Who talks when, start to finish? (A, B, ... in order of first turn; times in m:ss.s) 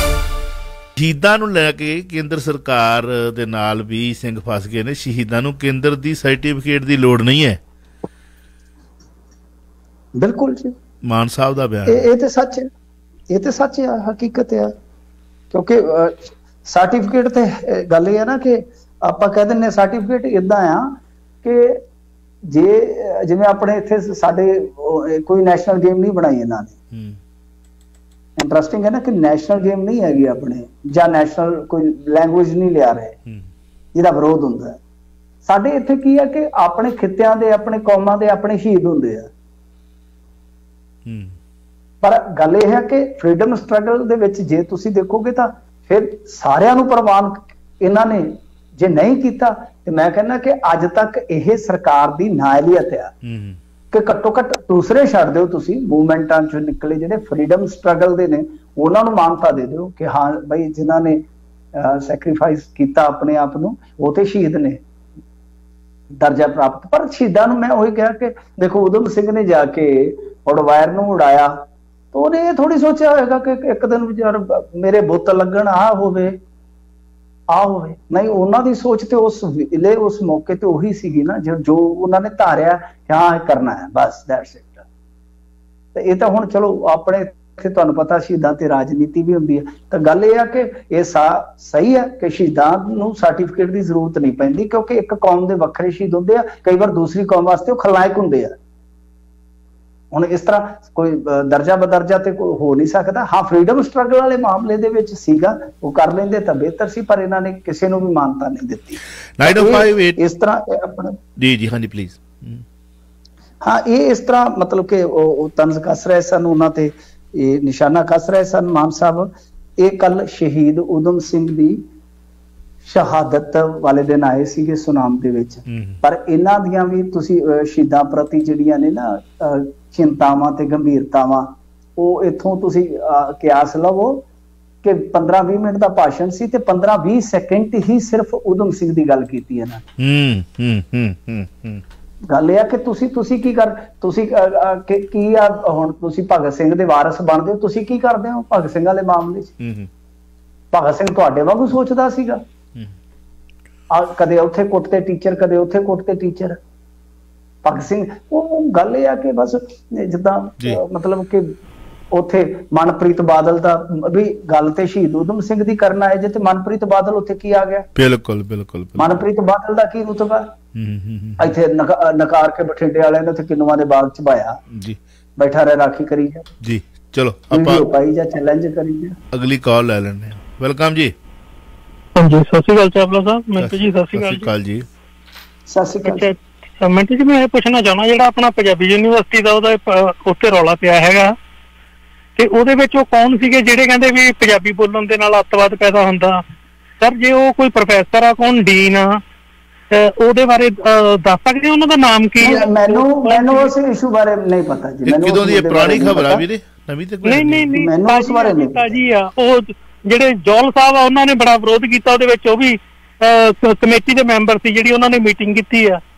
0:01.0-0:07.6 A
0:10.2-0:10.7 B
0:11.0-0:12.1 A
0:11.9-0:12.7 B
0:13.3-0:14.7 B
0:15.5-0:21.8 B
0:22.5-0:26.7 B
0:26.9-0:27.2 A
0:28.4-0:33.2 B
0:33.9-0:34.8 B
0:35.4-0:39.3 B
0:41.0-0:41.3 A
0:42.0-0:53.1 B
0:53.2-0:53.6 A
0:53.9-1:01.2 B
1:01.7-1:04.8 B
1:06.2-1:16.4 B
1:17.5-1:24.8 B
1:25.9-1:38.5 B
1:40.1-1:51.2 B
1:49.4-1:50.2 A
1:51.4-1:52.6 A
1:53.6-2:01.8 B
2:02.8-2:14.2 B
2:05.7-2:06.0 A
2:14.8-2:19.8 B
2:20.0-2:21.8 A
2:22.3-2:29.5 B
2:29.6-2:29.9 A
2:30.7-2:32.4 B
2:33.9-2:36.6 B
2:37.6-2:41.5 B
2:42.1-2:47.9 B
2:47.9-2:49.2 A
2:49.0-2:50.5 B
2:50.8-2:51.6 A
2:51.4-2:54.6 B
2:55.4-2:56.5 B
2:56.6-2:57.9 A
2:57.5-2:59.2 B
2:59.3-3:01.1 A
3:02.2-3:04.5 C
3:03.6-3:04.8 A
3:05.7-3:06.3 B
3:06.0-3:11.3 C
3:12.4-3:16.4 C
3:17.0-3:19.2 C
3:19.9-3:23.7 C
3:22.4-3:26.4 B
3:25.0-3:27.7 A
3:27.2-3:36.0 C
3:27.7-3:29.0 B